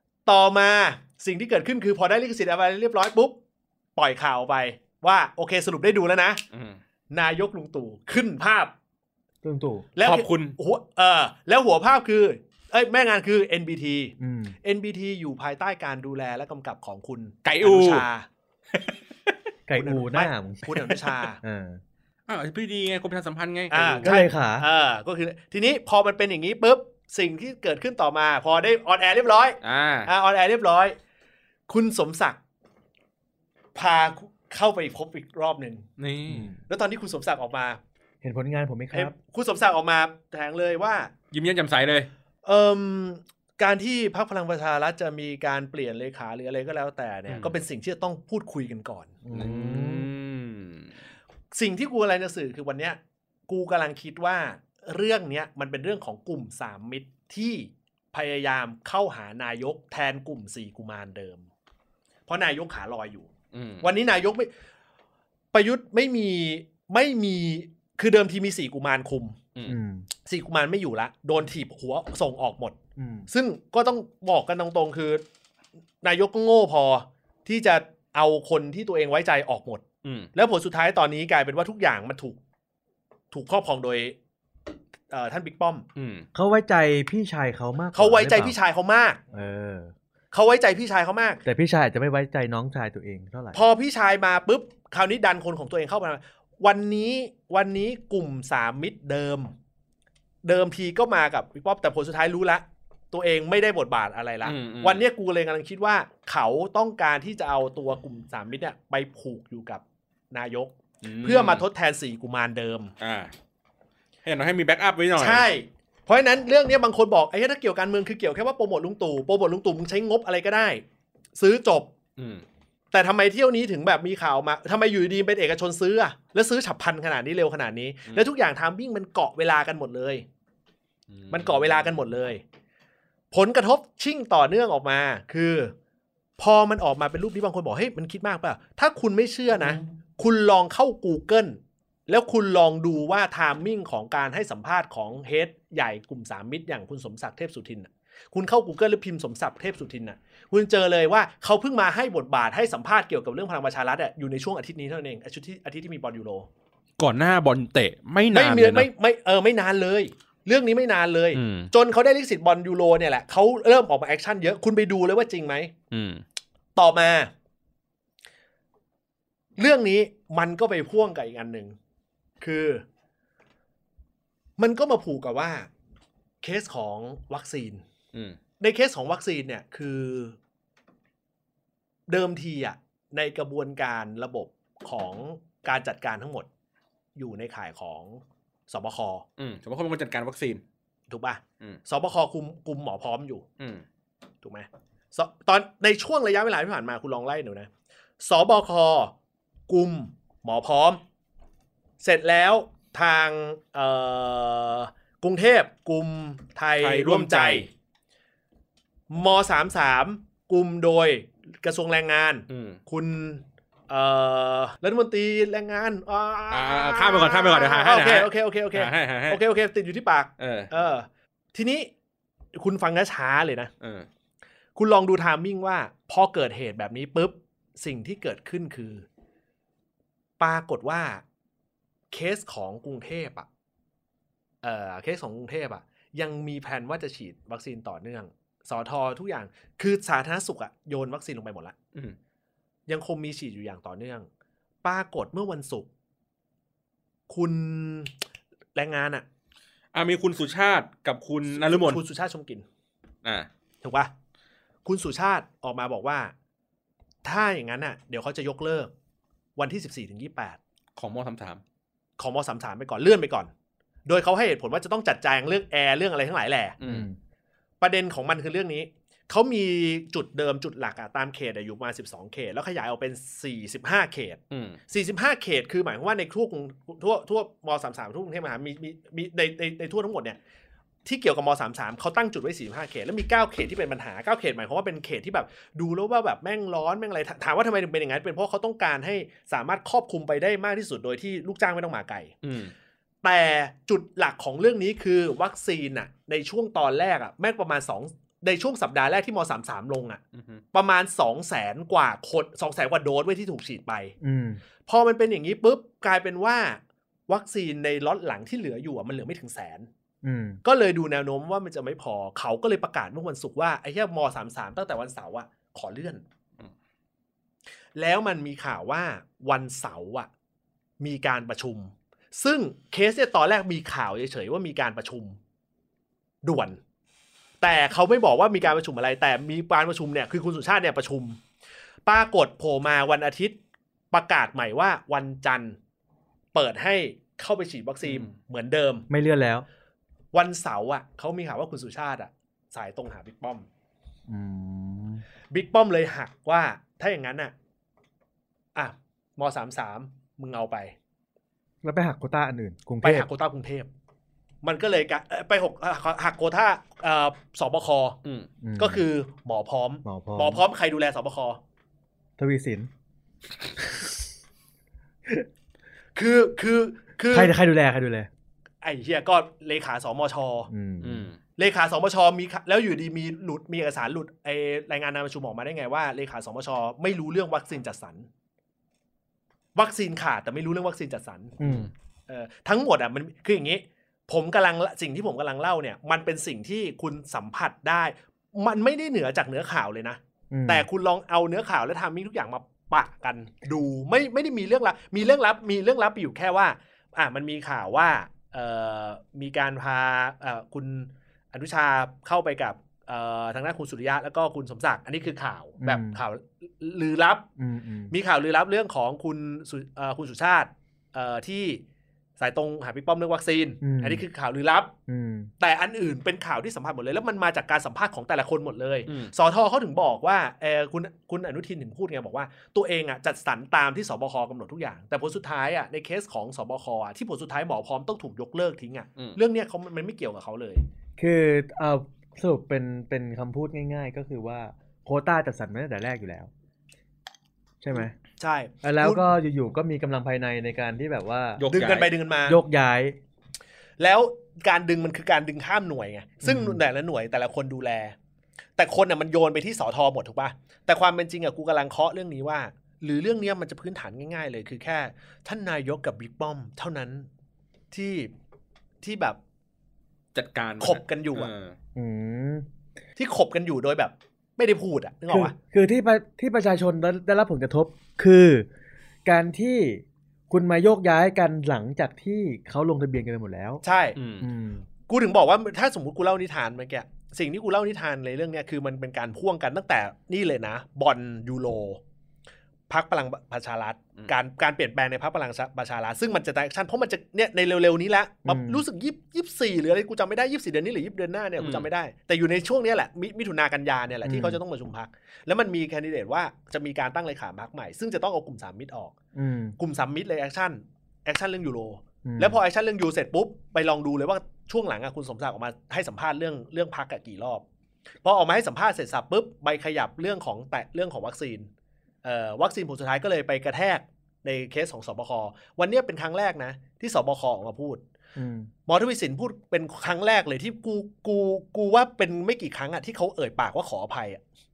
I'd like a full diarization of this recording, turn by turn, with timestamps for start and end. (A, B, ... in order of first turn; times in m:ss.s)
0:00.3-0:03.4 A
0:04.0-0:06.4 A
0:06.5-0:06.8 B
0:07.1-0:08.7 A
0:09.4-0:09.9 C
0:10.0-0:18.3 A
0:10.0-0:10.6 B
0:14.2-0:14.6 C
0:17.4-0:18.1 B
0:18.7-0:19.3 B
0:19.7-0:21.8 C
0:19.8-0:21.4 A
0:22.3-0:24.1 B
0:23.7-0:31.0 A
0:24.0-0:24.7 C
0:29.6-0:30.1 B
0:31.7-0:32.4 A
0:33.8-0:35.9 A
0:36.0-0:36.5 B
0:36.3-0:36.6 C
0:36.7-0:37.8 A
0:38.2-0:39.1 C
0:38.9-0:41.1 A
0:41.3-0:42.1 B
0:42.4-0:49.2 A
0:47.3-0:47.6 B
0:49.2-0:50.1 C
0:49.3-0:50.9 B
0:51.5-1:01.5 A
1:02.3-1:03.3 A
1:03.5-1:03.9 B
1:03.8-1:04.5 A
1:05.5-1:09.4 A
1:09.7-1:10.1 C
1:10.2-1:12.8 A
1:13.0-1:13.3 C
1:13.3-1:15.2 A
1:16.0-1:19.8 A
1:20.0-1:20.3 B
1:20.3-1:22.4 A
1:23.3-1:24.2 A
1:25.1-1:25.9 A
1:26.0-1:26.3 B
1:26.4-1:28.6 C
1:27.9-1:29.2 A
1:29.3-1:29.9 C
1:30.3-1:31.4 A
1:31.5-1:33.6 C
1:33.5-1:39.5 A
1:40.4-1:52.9 A
1:44.4-1:45.0 B
1:51.0-1:51.6 B
1:53.0-1:53.3 B
1:54.2-1:55.4 B
1:55.2-2:00.8 A
2:01.4-2:01.9 A
2:02.2-2:02.4 B
2:02.9-2:10.2 A
2:11.1-2:11.9 B
2:11.3-2:12.4 A
2:13.3-2:15.7 A
2:16.4-2:36.5 A
2:37.0-2:38.9 B
2:38.3-2:45.7 A
2:41.3-2:41.7 B
2:45.9-2:46.2 B
2:46.8-2:47.3 A
2:49.6-2:51.8 A
2:52.4-2:52.8 A
2:54.6-2:55.7 A
2:56.4-2:57.8 A
2:58.6-3:00.4 A
3:02.1-3:06.5 A
3:07.2-3:09.2 A
3:09.4-3:10.6 B
3:11.1-3:13.4 A
3:13.6-3:13.8 B
3:14.4-3:17.7 A
3:18.2-3:19.1 A
3:19.7-3:21.0 A
3:22.0-3:27.7 A
3:26.8-3:27.7 B
3:29.1-3:41.9 A
3:32.5-3:32.8 B
3:36.5-3:39.4 B
3:40.4-3:40.7 B
3:42.5-3:43.7 A
3:43.8-3:44.1 B
3:44.8-3:49.1 A
3:50.4-3:51.2 A
3:52.1-3:53.5 A
3:54.6-4:01.8 A
4:02.9-4:04.3 A
4:04.8-4:05.9 A
4:07.3-4:08.1 A
4:08.8-4:09.2 A
4:09.9-4:12.0 B
4:11.5-4:12.6 A
4:13.8-4:14.1 A
4:14.8-4:16.3 A
4:17.2-4:18.9 A
4:19.6-4:20.6 A
4:21.0-4:21.6 B
4:22.2-4:23.5 A
4:24.1-4:26.8 A
4:26.8-4:27.1 B
4:26.8-4:27.2 C
4:27.8-4:40.4 A
4:34.5-4:34.8 B
4:41.0-4:52.4 A
4:52.4-4:52.7 B
4:53.2-5:00.2 A
5:00.3-5:00.6 B
5:00.7-5:04.1 A
5:04.2-5:04.6 C
5:04.9-5:09.9 A
5:10.2-5:10.6 C
5:10.6-5:16.2 A
5:18.0-5:20.3 A
5:21.0-5:25.4 A
5:26.4-5:26.8 A
5:27.6-5:31.4 A
5:32.1-5:33.6 A
5:34.1-5:35.8 A
5:36.5-5:39.1 A
5:38.0-5:38.3 B
5:39.1-5:39.7 C
5:40.3-5:43.7 A
5:44.3-5:45.2 C
5:45.5-5:47.5 A
5:48.8-5:51.0 A
5:51.8-5:53.3 C
5:53.0-5:53.9 A
5:54.6-5:58.2 A
5:58.6-5:59.0 C
5:58.8-6:01.6 A
6:00.0-6:00.6 C
6:02.4-6:02.9 C
6:03.8-6:04.2 C
6:06.2-6:07.5 A
6:07.3-6:08.3 C
6:08.8-6:10.7 A
6:10.7-6:11.3 C
6:11.0-6:11.4 B
6:11.6-6:18.3 A
6:19.8-6:21.6 A
6:21.6-6:21.9 C
6:21.6-6:21.9 B
6:22.3-6:47.5 A
6:30.5-6:30.9 C
6:45.8-6:46.2 C
6:47.6-6:48.1 C
6:48.1-6:51.8 A
6:52.4-6:54.9 A
6:53.8-6:54.2 C
6:55.1-6:55.5 C
6:55.6-7:10.9 A
6:59.1-6:59.3 B
7:11.2-7:16.5 C
7:17.8-7:18.1 C
7:18.4-7:19.2 A
7:18.8-7:21.6 C
7:21.6-7:22.1 B
7:21.7-7:22.6 A
7:22.5-7:23.2 C
7:24.0-7:28.2 A
7:26.4-7:26.8 C
7:28.8-7:37.3 A
7:37.9-7:38.3 A
7:39.0-7:39.4 A
7:40.3-7:41.8 B
7:40.8-7:41.5 A
7:42.0-7:42.7 C
7:43.2-7:45.6 A
7:45.3-7:48.7 C
7:49.2-7:53.8 C
7:53.8-7:54.2 A
7:54.2-7:54.5 B
7:54.4-7:54.9 C
7:55.1-8:02.0 A
8:02.9-8:19.2 A
8:08.5-8:08.8 C
8:11.6-8:11.9 B
8:14.2-8:14.6 C
8:19.4-8:19.8 C
8:19.8-8:27.6 A
8:22.2-8:22.6 C
8:28.2-8:31.7 A
8:32.2-8:38.0 A
8:38.4-8:38.7 C
8:38.9-8:44.4 A